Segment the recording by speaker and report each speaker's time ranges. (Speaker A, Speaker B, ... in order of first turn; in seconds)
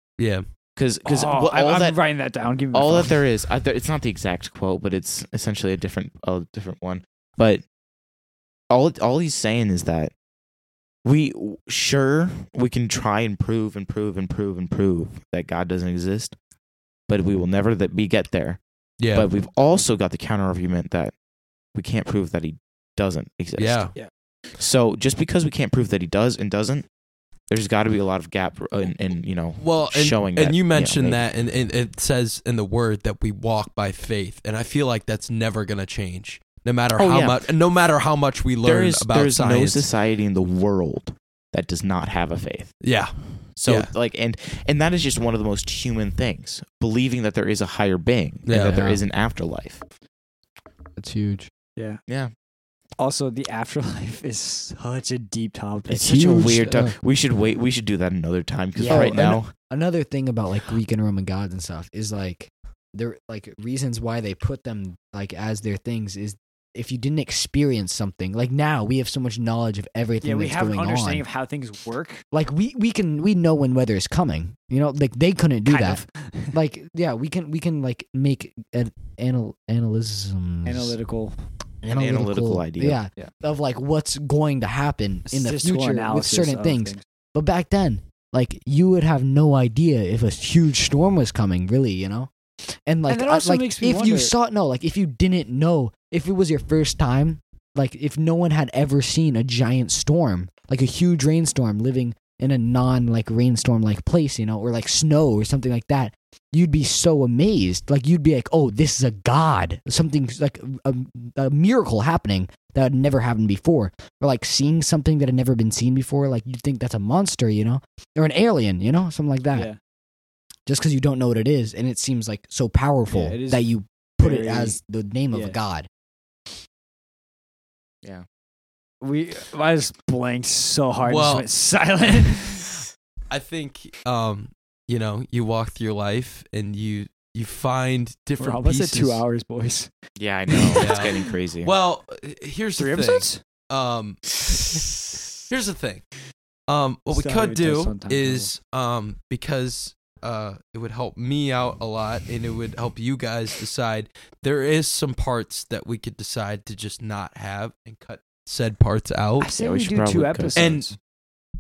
Speaker A: 0.2-0.5, 19.0-19.3, 23.6-23.9, 29.6-39.8, 42.8-43.9, 48.5-49.0, 131.1-131.4, 133.3-139.2, 140.7-144.9, 145.5-146.1, 146.7-159.5, 160.6-160.9
Speaker B: 0.8-2.0, 2.7-7.6, 8.7-10.1, 11.0-16.3, 17.1-18.6, 19.1-21.1, 21.7-23.9, 24.6-26.9, 27.5-31.2, 37.0-37.5, 38.6-42.8, 43.5-49.8, 55.9-59.5, 75.7-76.0, 81.9-83.0, 140.2-141.7, 159.6-160.6
Speaker C: 1.0-3.2, 51.8-52.0, 53.0-56.6, 58.8-59.1, 70.2-72.2, 75.8-76.5, 80.6-81.3, 85.2-87.0, 93.1-94.3, 119.5-119.8, 123.1-123.7, 124.2-124.8, 125.3-125.6, 129.0-132.8, 138.4-139.9, 140.5-141.3, 142.8-143.4, 147.1-148.5, 159.4-160.9
Speaker D: 51.0-51.5, 56.1-57.0, 58.8-71.2, 72.3-80.9, 81.8-92.3, 92.8-119.7, 120.7-125.9